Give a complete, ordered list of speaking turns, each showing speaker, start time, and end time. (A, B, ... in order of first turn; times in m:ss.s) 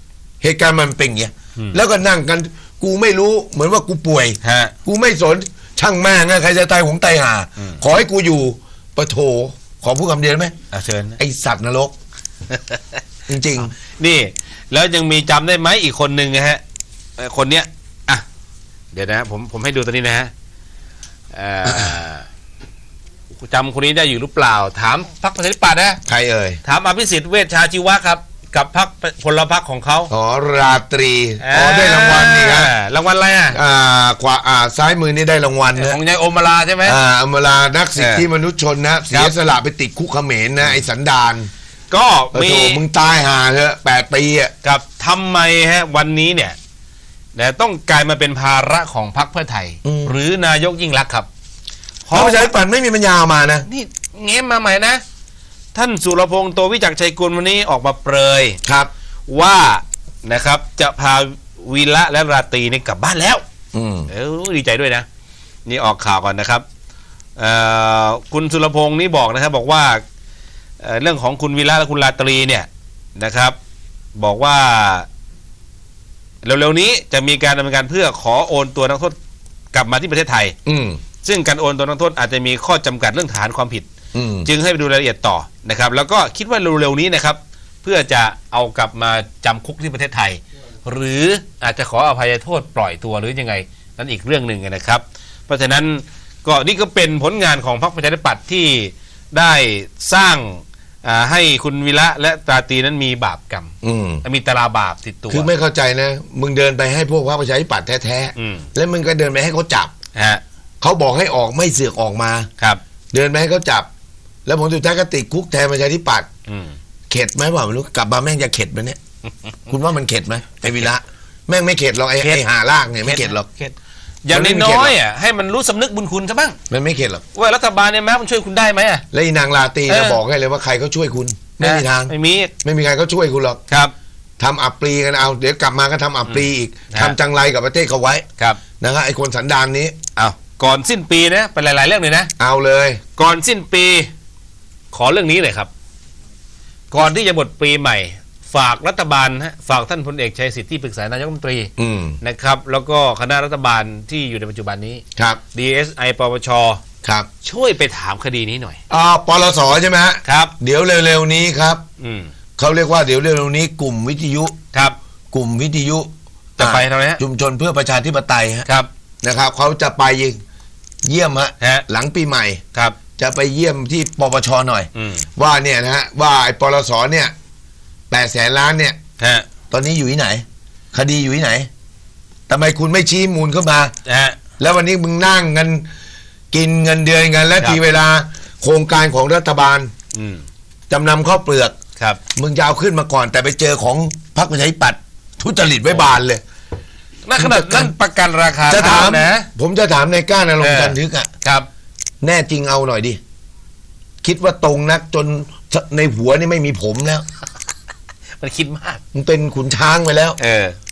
0:00.4-0:10.5 A
0:04.4-0:04.7 B
0:10.7-0:11.2 B
0:11.2-0:11.9 A
0:12.5-0:13.0 B
0:13.3-0:13.7 A
0:13.8-0:16.6 B
0:17.2-0:18.2 B
0:18.9-0:20.3 B
0:21.3-0:22.2 B
0:23.3-0:26.0 B
0:26.1-0:26.6 A
0:26.6-0:30.1 B
0:30.1-0:32.7 A
0:31.4-0:33.6 B
0:33.5-0:36.0 A
0:35.7-0:37.0 B
0:36.8-0:41.5 A
0:38.0-0:38.2 B
0:41.9-0:42.8 B
0:42.3-0:44.5 A
0:44.6-0:46.6 B
0:47.4-0:51.3 B
0:49.8-0:50.2 A
0:52.1-0:52.5 B
0:52.1-0:53.7 A
0:53.7-0:55.0 B
0:55.7-0:58.6 B
0:58.6-0:58.9 A
0:59.3-1:03.4 B
1:03.7-1:04.1 A
1:04.1-1:05.1 B
1:05.7-1:06.6 B
1:07.4-1:10.0 B
1:10.8-1:13.6 B
1:14.2-1:15.1 B
1:16.4-1:19.2 B
1:19.7-1:20.5 B
1:20.7-1:21.0 A
1:21.2-1:23.9 B
1:24.1-1:24.5 A
1:24.4-1:43.7 B
1:43.8-1:44.2 A
1:44.2-1:45.5 B
1:45.3-1:49.9 A
1:48.4-1:48.7 B
1:50.2-1:50.4 B
1:50.8-1:52.5 A
1:53.1-1:53.9 A
1:54.5-1:56.3 A
1:56.5-1:56.8 B
1:57.1-1:59.0 A
1:59.7-2:03.5 A
2:03.0-2:06.6 B
2:04.3-2:05.0 A
2:06.7-2:07.2 A
2:07.4-2:09.0 B
2:09.1-2:12.1 A
2:09.9-2:10.2 B
2:11.6-2:12.5 B
2:12.6-2:13.6 A
2:14.4-2:18.3 A
2:16.3-2:17.2 B
2:18.8-2:20.0 A
2:20.2-2:22.3 B
2:22.4-2:23.0 A
2:23.2-2:24.1 B
2:24.9-2:25.7 B
2:26.9-2:35.0 B
2:31.8-2:32.2 A
2:35.5-2:36.8 B
2:37.4-2:38.8 B
2:38.9-2:41.8 A
2:40.2-2:40.5 B
2:42.0-2:42.3 B
2:42.6-2:44.6 A
2:45.3-2:48.7 A
2:46.6-2:47.2 B
2:49.2-2:50.4 A
2:51.0-2:52.6 A
2:51.6-2:51.8 B
2:53.2-2:57.3 A
2:55.0-2:55.3 B
2:58.1-2:59.0 A
2:59.2-2:59.5 B
2:59.7-3:01.7 A
3:02.5-3:03.9 A
3:04.1-3:04.4 B
3:04.6-3:05.8 A
3:06.5-3:09.9 A
3:10.1-3:10.4 B
3:10.9-3:11.8 A
3:12.4-3:16.4 A
3:17.2-3:19.5 B
3:17.4-3:17.9 A
3:18.7-3:21.3 A
3:20.6-3:21.7 B
3:22.2-3:23.2 A
3:24.2-3:27.2 A
3:28.4-3:29.0 B
3:29.1-3:30.4 A
3:30.4-3:30.8 B